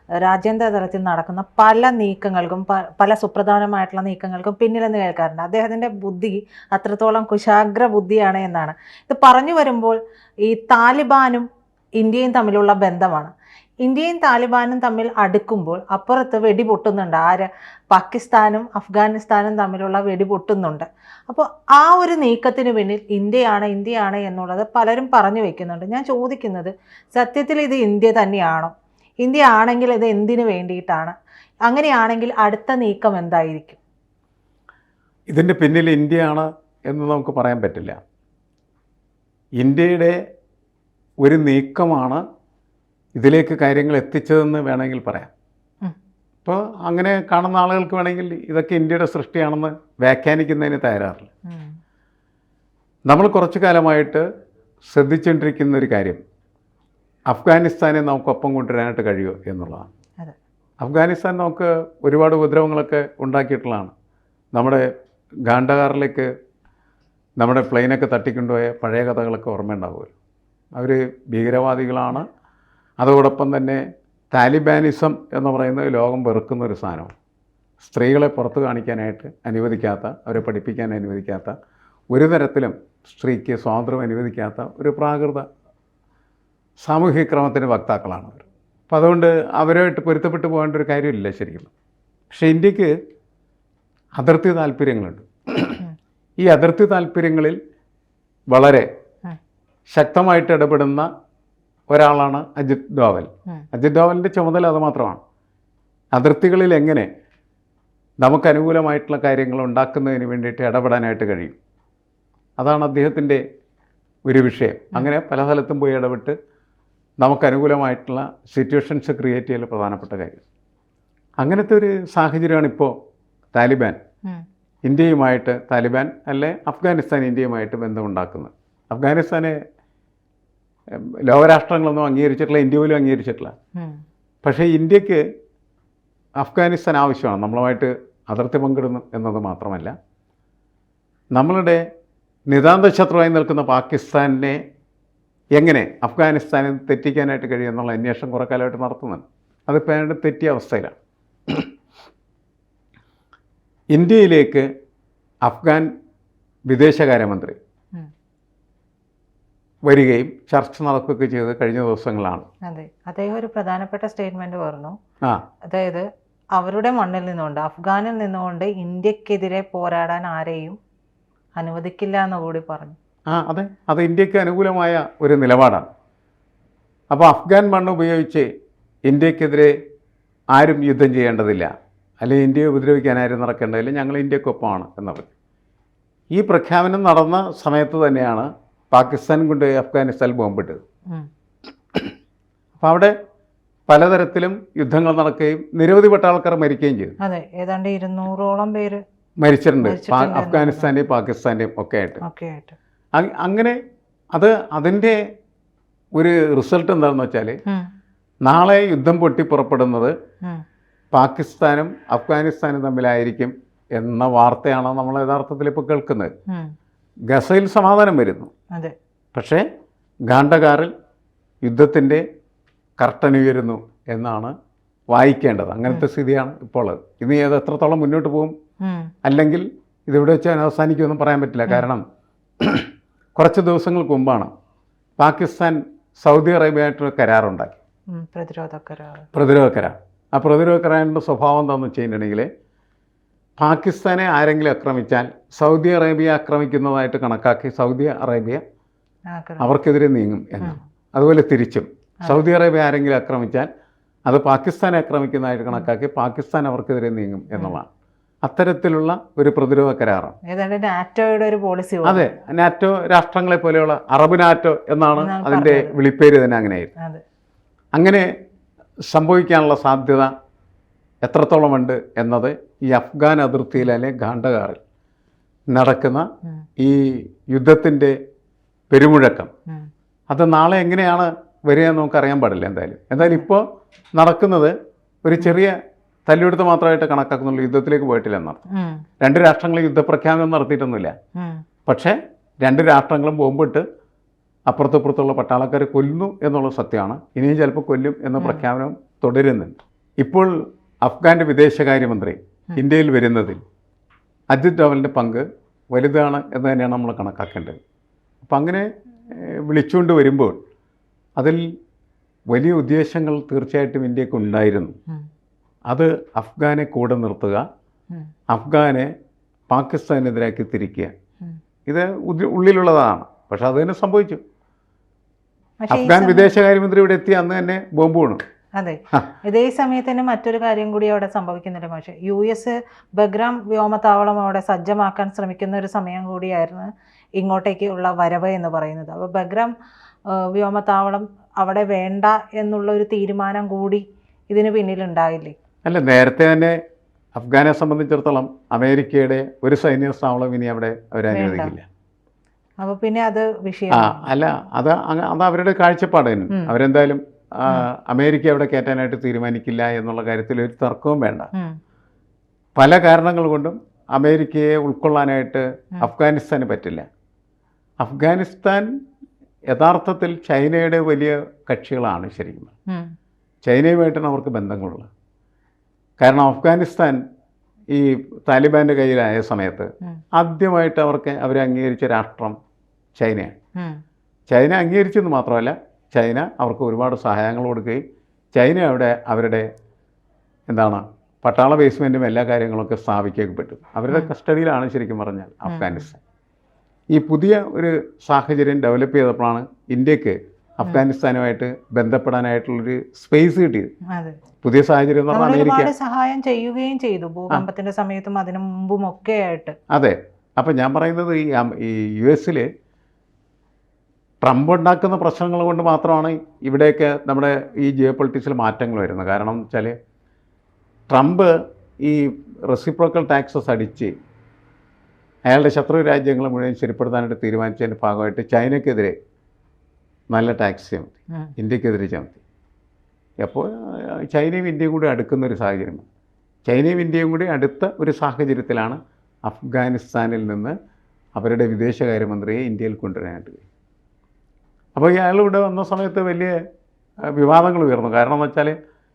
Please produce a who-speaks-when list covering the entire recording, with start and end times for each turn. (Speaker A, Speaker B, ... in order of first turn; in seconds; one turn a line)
Speaker A: 0.2-11.4
Speaker A: 12.0-13.3
Speaker A: 13.8-33.8
Speaker B: 35.3-38.0
Speaker B: 39.6-40.2
Speaker B: 41.2-42.2
Speaker B: 43.2-45.3
Speaker B: 46.4-51.3
Speaker B: 53.1-54.2
Speaker B: 54.9-56.2
Speaker B: 57.3-59.9
Speaker B: 60.8-63.9
Speaker B: 64.5-64.9
Speaker B: 65.5-66.3
Speaker B: 67.4-70.1
Speaker B: 70.7-72.2
Speaker B: 73.0-77.1
Speaker B: 77.8-81.5
Speaker B: 82.1-85.5
Speaker B: 86.8-91.7
Speaker B: 92.3-92.9
Speaker B: 94.2-95.8
Speaker B: 96.4-97.6
Speaker B: 98.5-98.9
Speaker B: 99.9-101.1
Speaker B: 101.9-105.2
Speaker B: 106.1-107.1
Speaker B: 108.2-111.6
Speaker B: 112.6-113.4
Speaker B: 114.2-116.3
Speaker B: 117.2-120.4
Speaker B: 121.4-122.9
Speaker B: 123.5-124.0
Speaker B: 124.8-129.6
Speaker B: 130.9-133.5
Speaker B: 134.4-135.2
Speaker B: 136.4-139.9
Speaker B: 141.3-141.8
Speaker B: 142.5-144.6
Speaker B: 145.5-150.9
Speaker B: 153.9-154.7
Speaker B: 155.4-155.9
Speaker B: 156.7-157.6
Speaker B: 159.9-162.5
Speaker A: 162.7-164.9
Speaker A: 165.7-170.8
Speaker A: 171.6-173.0
Speaker B: 173.3-175.8
Speaker B: 177.1-178.5
Speaker B: 179.1-179.7
Speaker B: 180.5-185.3
Speaker B: 186.3-190.8
Speaker B: 192.8-193.1
Speaker B: 193.9-197.2
Speaker A: 197.2-199.0
Speaker B: 199.4-202.2
Speaker A: 199.8-200.9
Speaker A: 202.2-202.8
Speaker B: 203.1-203.8
Speaker B: 204.3-205.2
Speaker B: 206.2-207.6
Speaker B: 208.4-210.1
Speaker B: 211.1-216.3
Speaker B: 217.3-218.5
Speaker B: 219.3-219.6
Speaker B: 220.3-220.9
Speaker B: 221.6-222.2
Speaker B: 223.0-224.5
Speaker B: 225.1-228.5
Speaker A: 228.8-229.1
Speaker B: 229.2-232.0
Speaker B: 232.6-234.5
Speaker B: 235.2-237.7
Speaker A: 238.1-239.3
Speaker B: 239.3-242.5
Speaker B: 243.6-248.6
Speaker A: 249.3-249.7
Speaker B: 249.6-253.7
Speaker B: 254.3-257.9
Speaker B: 258.4-260.3
Speaker A: 260.5-262.3
Speaker B: 262.0-266.9
Speaker A: 265.2-265.9
Speaker B: 267.9-268.3
Speaker B: 269.1-270.3
Speaker B: 271.2-274.8
Speaker B: 275.7-276.3
Speaker B: 276.8-278.1
Speaker B: 278.9-279.5
Speaker B: 280.3-283.6
Speaker A: 283.2-283.5
Speaker B: 284.1-285.8
Speaker B: 286.3-288.6
Speaker A: 288.7-289.0
Speaker B: 289.2-291.1
Speaker A: 291.4-291.6
Speaker B: 291.9-293.8
Speaker B: 294.7-300.5
Speaker A: 298.4-298.6
Speaker B: 301.0-303.6
Speaker B: 304.5-307.8
Speaker B: 308.4-310.6
Speaker B: 311.4-311.6
Speaker B: 312.5-314.9
Speaker B: 315.9-317.6
Speaker B: 318.5-319.1
Speaker B: 319.7-321.1
Speaker B: 321.9-324.4
Speaker A: 325.8-326.5
Speaker B: 325.9-328.4
Speaker A: 328.8-339.7
Speaker A: 340.3-345.5
Speaker B: 345.9-346.8
Speaker B: 347.3-351.9
Speaker A: 351.3-351.7
Speaker A: 352.8-354.3
Speaker B: 353.9-361.5
Speaker B: 362.8-367.0
Speaker B: 368.0-368.9
Speaker B: 369.7-372.7
Speaker B: 373.6-375.1
Speaker B: 376.2-377.2
Speaker B: 377.9-382.5
Speaker B: 383.2-383.6
Speaker B: 384.5-388.0
Speaker B: 388.5-389.7
Speaker B: 390.7-396.2
Speaker A: 395.7-396.1
Speaker B: 397.1-403.9
Speaker B: 404.6-405.9
Speaker A: 405.3-409.8
Speaker B: 409.9-412.7
Speaker B: 414.4-419.9
Speaker B: 421.1-424.1
Speaker B: 425.4-429.1
Speaker B: 430.3-432.4
Speaker B: 433.4-436.0
Speaker B: 436.7-440.7
Speaker B: 441.3-443.6
Speaker B: 444.9-446.6
Speaker B: 447.2-448.7